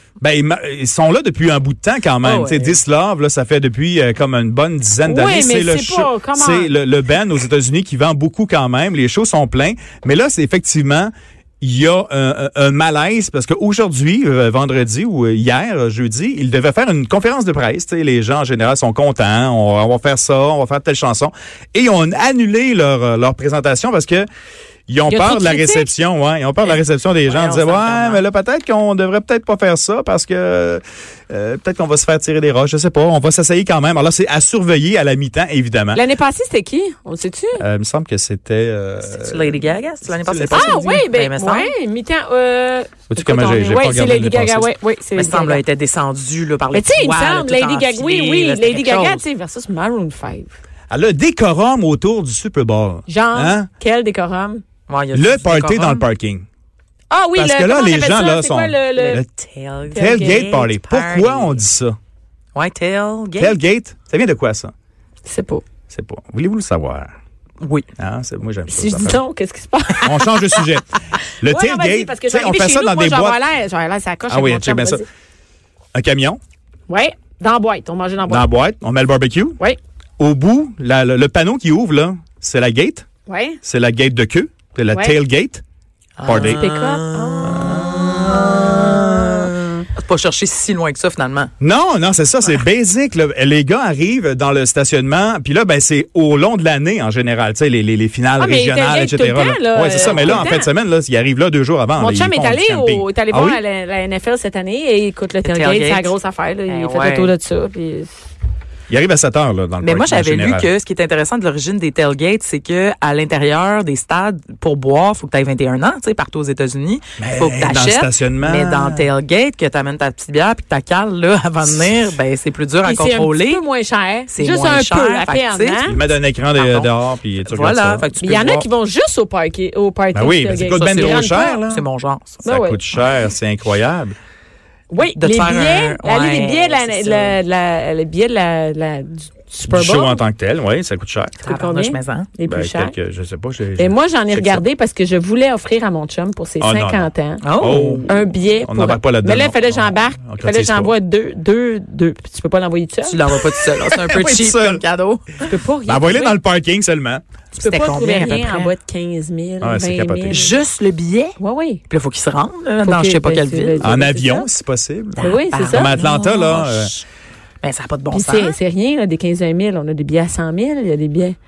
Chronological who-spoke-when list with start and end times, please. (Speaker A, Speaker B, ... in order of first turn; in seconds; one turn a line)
Speaker A: 0.2-24.3
Speaker B: 2.2-2.8
Speaker C: 5.0-6.7
Speaker A: 24.9-36.0
Speaker C: 25.1-25.9
Speaker B: 26.6-28.2
Speaker C: 35.9-37.6
Speaker A: 37.6-40.8
Speaker B: 39.0-41.7
Speaker C: 40.5-45.6
Speaker A: 43.1-44.7
Speaker B: 45.1-49.2
Speaker C: 46.7-50.5
Speaker A: 50.9-53.7
Speaker C: 53.1-54.6
Speaker B: 54.9-56.0
Speaker A: 55.1-56.5
Speaker C: 57.1-59.2
Speaker A: 57.4-59.3
Speaker B: 59.0-61.6
Speaker A: 59.9-62.0
Speaker C: 59.9-60.5
Speaker B: 62.5-63.6
Speaker A: 63.4-64.7
Speaker C: 65.2-65.6
Speaker A: 65.9-67.1
Speaker B: 67.6-67.9
Speaker A: 68.0-69.2
Speaker C: 68.7-70.4
Speaker A: 70.0-73.4
Speaker C: 71.5-75.0
Speaker A: 74.3-75.0
Speaker A: 75.9-76.4
Speaker C: 76.9-78.5
Speaker A: 78.3-79.6
Speaker A: 80.2-83.1
Speaker C: 83.3-83.6
Speaker A: 83.6-85.6
Speaker B: 86.2-91.5
Speaker A: 86.2-86.6
Speaker C: 86.3-87.7
Speaker A: 87.6-88.5
Speaker A: 91.6-103.6
Speaker C: 98.4-100.7
Speaker B: 100.0-100.5
Speaker C: 102.0-108.1
Speaker B: 105.4-106.1
Speaker B: 106.7-107.3
Speaker A: 108.9-110.7
Speaker B: 109.8-123.6
Speaker A: 117.2-119.1
Speaker C: 122.8-126.0
Speaker B: 124.3-128.7
Speaker A: 125.9-128.1
Speaker C: 128.2-131.6
Speaker A: 130.1-131.8
Speaker B: 130.8-132.4
Speaker C: 132.4-132.8
Speaker A: 132.4-134.2
Speaker C: 134.9-140.2
Speaker B: 135.2-137.4
Speaker A: 139.6-141.4
Speaker C: 141.4-142.9
Speaker B: 141.5-142.3
Speaker A: 142.5-144.6
Speaker C: 143.8-147.5
Speaker A: 146.6-150.9
Speaker B: 147.4-148.2
Speaker C: 148.1-153.3
Speaker B: 153.1-155.4
Speaker A: 153.9-154.8
Speaker C: 155.4-156.4
Speaker A: 155.9-157.2
Speaker B: 157.5-158.7
Speaker C: 157.6-160.5
Speaker A: 159.6-160.5
Speaker B: 160.3-161.4
Speaker C: 161.4-161.8
Speaker B: 161.9-164.0
Speaker C: 162.8-164.5
Speaker A: 163.8-166.9
Speaker B: 165.2-167.0
Speaker C: 165.2-166.0
Speaker B: 167.6-168.6
Speaker C: 168.1-171.4